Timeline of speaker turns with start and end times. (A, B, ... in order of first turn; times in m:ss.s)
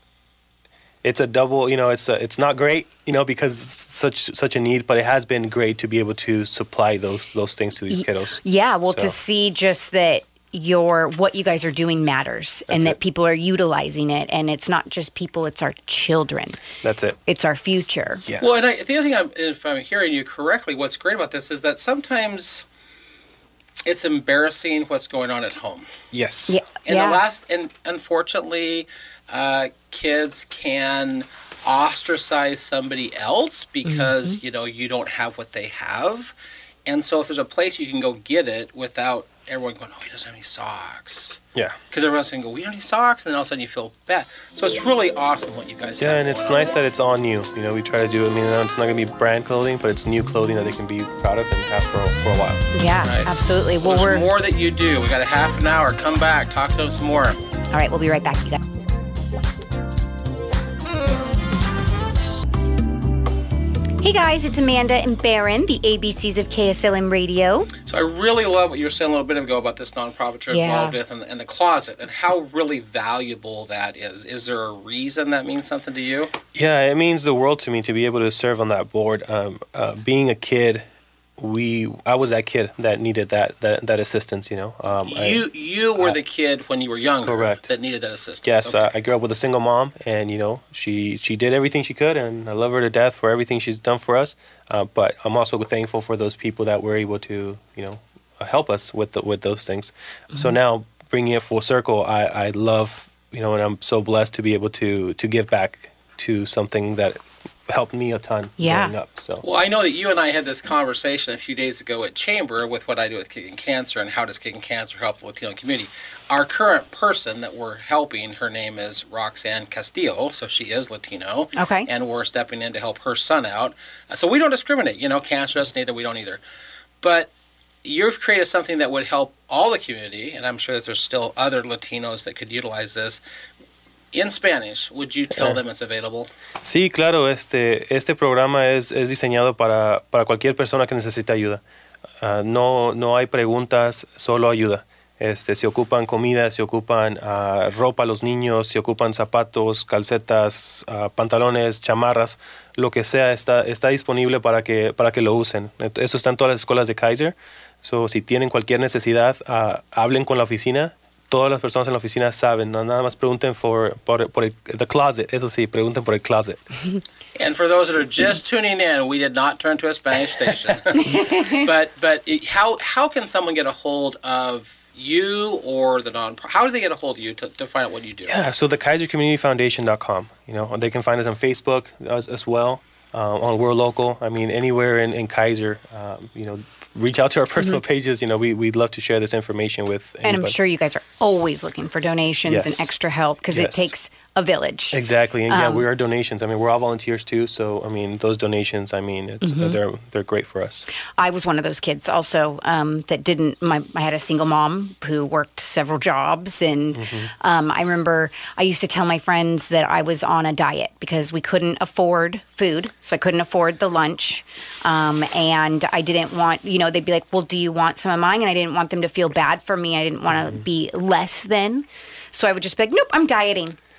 0:01.0-0:09.2 A
0:07.9-0:16.6 B
0:12.7-0:13.0 A
0:16.8-0:17.2 A
0:17.2-0:18.2 B
0:18.2-0:18.5 A
0:18.4-0:22.6 C
0:23.9-0:25.9 C
0:26.1-0:26.6 A
0:26.5-0:27.2 B
0:26.8-0:36.3 C
0:36.9-0:41.4 C
0:41.9-0:46.7 C
0:46.0-0:52.6 A
0:52.7-0:54.3 B
0:53.0-0:57.4 C
0:57.7-0:58.6 B
1:04.0-1:07.7 B
1:07.9-1:16.3 C
1:10.5-1:11.0 B
1:16.6-1:20.9 A
1:21.4-1:25.4 A
1:25.0-1:28.9 C
1:27.2-1:27.7 A
1:28.4-1:49.4 A
1:48.6-1:48.9 B
1:49.4-2:06.4 C
2:01.5-2:01.9 B
2:07.0-2:07.3 C
2:07.8-2:13.2 C
2:14.1-2:16.3 C
2:15.3-2:15.6 A
2:16.6-2:21.6 A
2:22.2-2:46.6 A
2:47.4-2:58.3 C
2:51.0-2:51.5 B
2:58.3-3:10.6 A
3:10.2-3:15.9 B
3:12.5-3:12.9 A
3:13.5-3:13.9 A
3:14.9-3:20.9 A
3:19.4-3:19.8 B
3:21.2-3:43.8 B
3:27.0-3:27.3 A